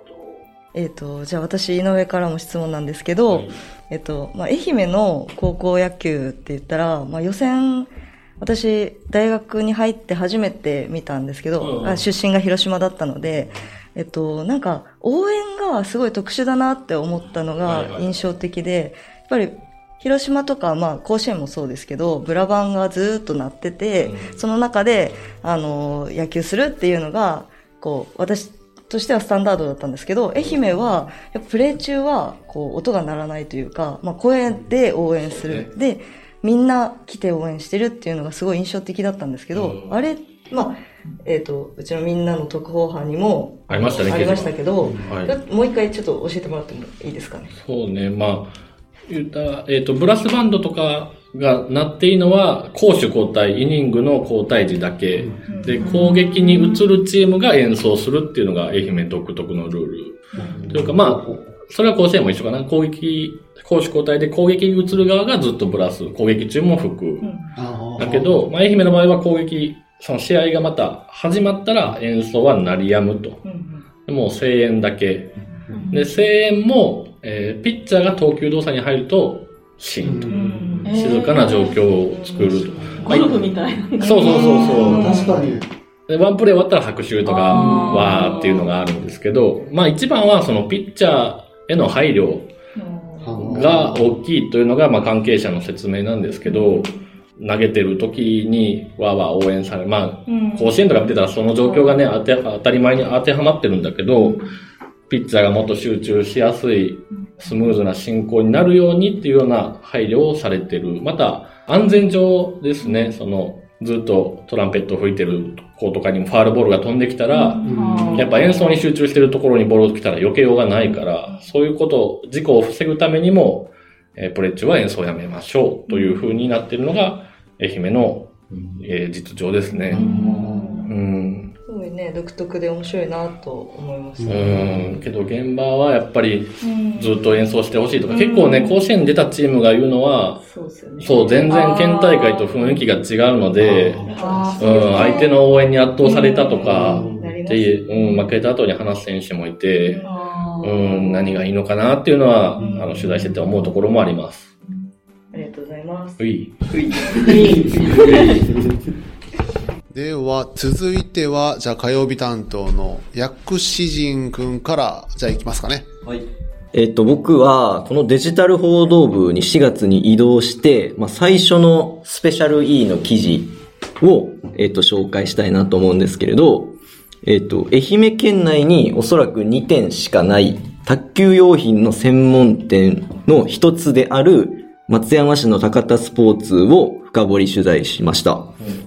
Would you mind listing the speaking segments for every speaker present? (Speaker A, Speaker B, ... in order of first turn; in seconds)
Speaker A: 0.7-47.5, 55.5-56.1, 60.3-60.6, 67.2-67.5, 73.4-73.8, 80.3-80.9, 82.0-83.2, 87.5-88.4, 92.8-93.5, 96.5-96.9, 100.3-100.7, 101.7-102.0, 117.4-118.1, 125.9-126.2, 129.7-130.9, 131.7-134.9, 136.6-137.2, 138.1-138.7, 140.4-142.8, 144.1-145.3, 146.1-148.3, 149.8-151.4, 152.6-153.2, 155.3-156.2, 157.0-158.1
Speaker B: 3.3-3.5, 11.6-12.0, 17.6-18.1, 24.0-24.3, 35.2-35.7, 39.5-40.0, 43.7-45.3, 47.6-67.2, 68.0-73.4, 74.1-75.4, 75.9-83.3, 84.0-85.0, 86.1-92.5, 93.5-104.4, 105.1-130.1, 130.8-131.5, 134.3-140.4, 141.0-144.0, 144.6-150.0, 150.6-154.5, 156.2-156.5
Speaker C: 55.8-56.8, 80.8-81.7, 83.0-85.3, 87.4-88.7, 117.6-118.7, 146.0-146.6, 157.1-158.2
Speaker D: 60.4-61.4, 67.5-68.4, 80.0-80.8, 84.2-85.7, 93.2-94.1, 117.6-118.2, 129.9-130.8, 134.2-134.6, 143.6-145.2, 146.7-147.3, 159.9-165.9
Speaker E: 84.4-85.0, 157.8-158.4, 166.0-176.7, 177.2-188.6